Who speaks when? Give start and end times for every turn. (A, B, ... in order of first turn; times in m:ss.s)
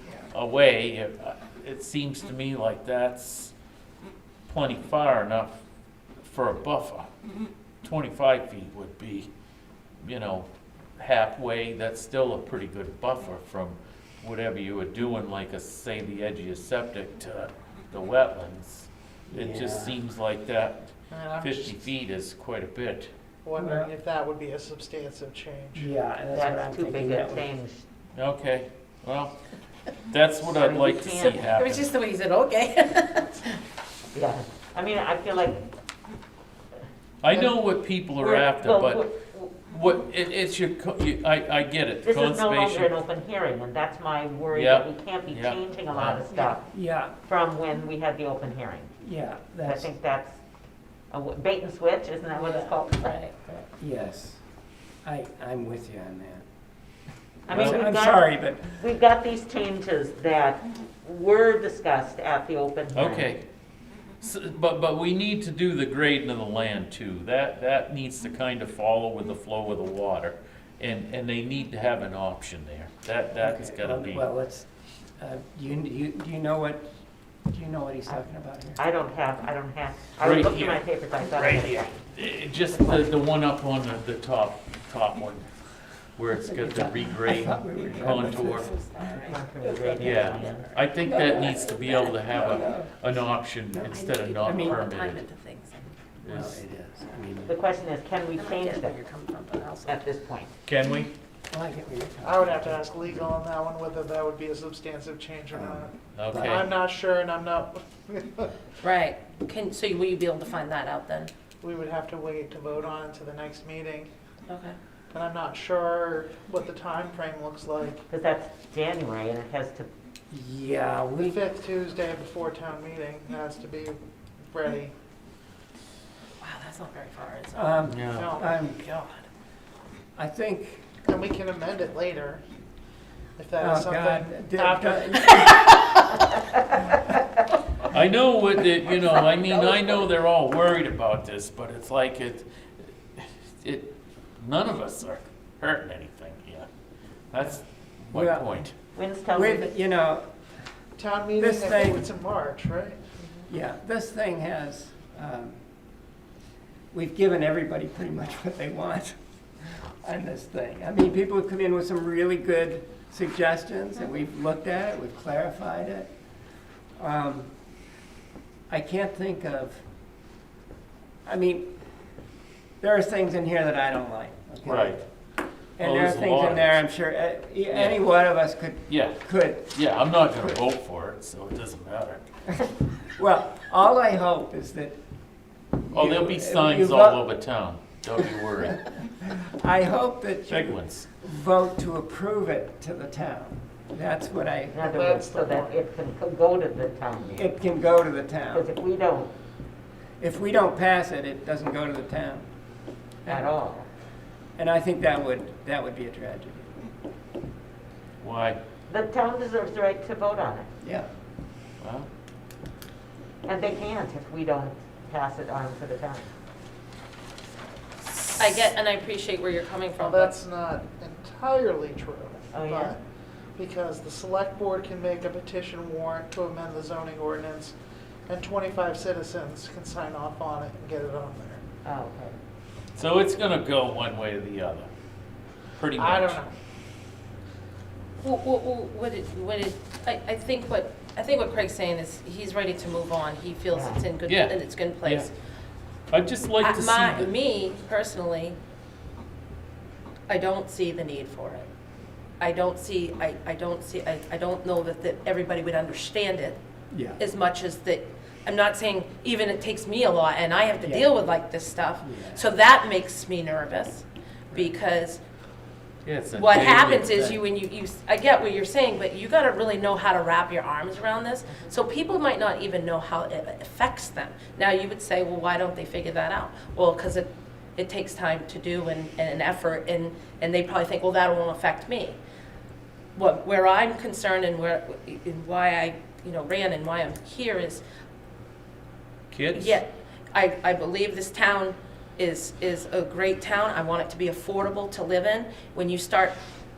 0:00.3-0:03.5 A
0:04.5-0:05.6 A
0:06.2-0:07.1 A
0:07.8-0:09.3 A
0:10.0-0:20.9 A
0:19.3-0:20.0 B
0:21.1-0:21.8 C
0:21.4-0:23.1 A
0:23.4-0:25.9 C
0:23.6-0:23.9 B
0:25.7-0:27.5 B
0:26.3-0:27.8 D
0:28.1-0:29.4 A
0:30.0-0:31.9 A
0:30.5-0:31.4 D
0:31.1-0:33.6 E
0:34.1-0:35.6 D
0:37.2-0:42.9 A
0:38.2-0:39.5 D
0:42.0-0:48.9 D
0:44.5-0:46.5 A
0:46.7-0:47.1 B
0:49.0-0:49.9 B
0:49.6-0:50.3 D
0:51.1-0:53.6 D
0:52.3-0:53.3 E
0:53.8-0:54.4 B
0:55.0-0:56.4 B
0:57.4-1:03.3 D
0:57.5-0:58.8 B
0:57.5-0:57.8 A
1:02.9-1:03.4 A
1:04.2-1:14.2 A
1:13.4-1:16.9 B
1:17.5-1:18.8 B
1:18.8-1:22.1 D
1:20.2-1:25.5 A
1:22.7-1:23.2 D
1:26.1-1:28.7 A
1:26.3-1:30.5 B
1:28.6-1:29.4 E
1:29.2-1:30.7 D
1:30.0-1:35.2 A
1:31.0-1:32.9 B
1:33.7-1:34.8 B
1:33.9-1:36.0 E
1:36.2-1:36.6 A
1:36.3-1:37.6 B
1:37.4-1:39.0 D
1:38.3-1:40.0 E
1:39.8-1:40.5 D
1:40.6-1:41.1 A
1:41.5-1:42.8 B
1:42.2-1:48.6 C
1:45.5-1:46.6 B
1:46.2-1:46.7 A
1:48.8-1:51.3 E
1:51.6-1:54.1 C
1:54.5-1:54.8 E
1:55.1-1:58.0 C
1:58.1-1:59.9 D
2:00.3-2:01.4 B
2:01.2-2:04.0 C
2:04.5-2:04.9 C
2:06.4-2:09.2 E
2:07.5-2:08.8 B
2:07.9-2:08.2 A
2:10.1-2:10.8 B
2:11.0-2:12.4 C
2:13.4-2:15.6 C
2:13.6-2:15.7 B
2:17.9-2:26.7 A
2:19.1-2:20.1 D
2:27.3-2:28.7 A
2:28.1-2:28.6 B
2:28.9-2:29.7 D
2:29.3-2:30.3 B
2:31.0-2:33.2 C
2:31.4-2:32.0 B
2:33.5-2:35.6 B
2:36.9-2:46.1 B
2:47.0-2:47.5 B
2:48.7-2:49.8 B
2:51.2-2:51.7 B
2:52.8-2:55.0 B
2:54.6-2:55.0 A
2:55.8-2:59.7 B
2:55.8-2:56.8 A
2:57.7-2:58.0 A
2:58.9-3:02.2 A
3:03.0-3:05.0 B
3:05.8-3:07.2 B
3:05.9-3:08.9 A
3:08.9-3:14.9 B
3:10.5-3:11.1 A
3:14.7-3:17.5 D
3:14.8-3:15.8 C
3:17.3-3:18.7 B
3:18.5-3:19.3 D
3:20.2-3:22.5 B
3:23.2-3:23.6 B
3:23.2-3:23.9 D
3:24.6-3:26.7 B
3:28.2-3:28.6 A
3:28.9-3:30.7 D
3:30.8-3:31.1 B
3:31.8-3:32.1 A
3:33.4-3:36.3 D
3:38.4-3:40.3 E
3:40.0-3:43.0 C
3:42.5-3:43.0 D
3:43.6-3:47.7 C
3:48.3-3:51.6 C
3:51.8-3:52.4 D
3:52.9-3:54.9 A
3:55.8-3:56.4 A
3:55.9-3:56.5 C
3:58.2-4:05.3 E
4:03.7-4:04.0 D
4:04.3-4:05.3 A
4:06.1-4:07.3 A
4:06.6-4:08.6 E
4:10.3-4:11.6 E
4:12.4-4:16.6 E
4:16.9-4:17.2 B
4:17.2-4:25.2 E
4:20.8-4:21.1 B
4:22.0-4:22.4 B
4:26.0-4:27.4 A
4:26.3-4:42.2 E
4:43.1-4:47.8 E
4:49.3-4:49.8 A
4:49.5-4:56.4 E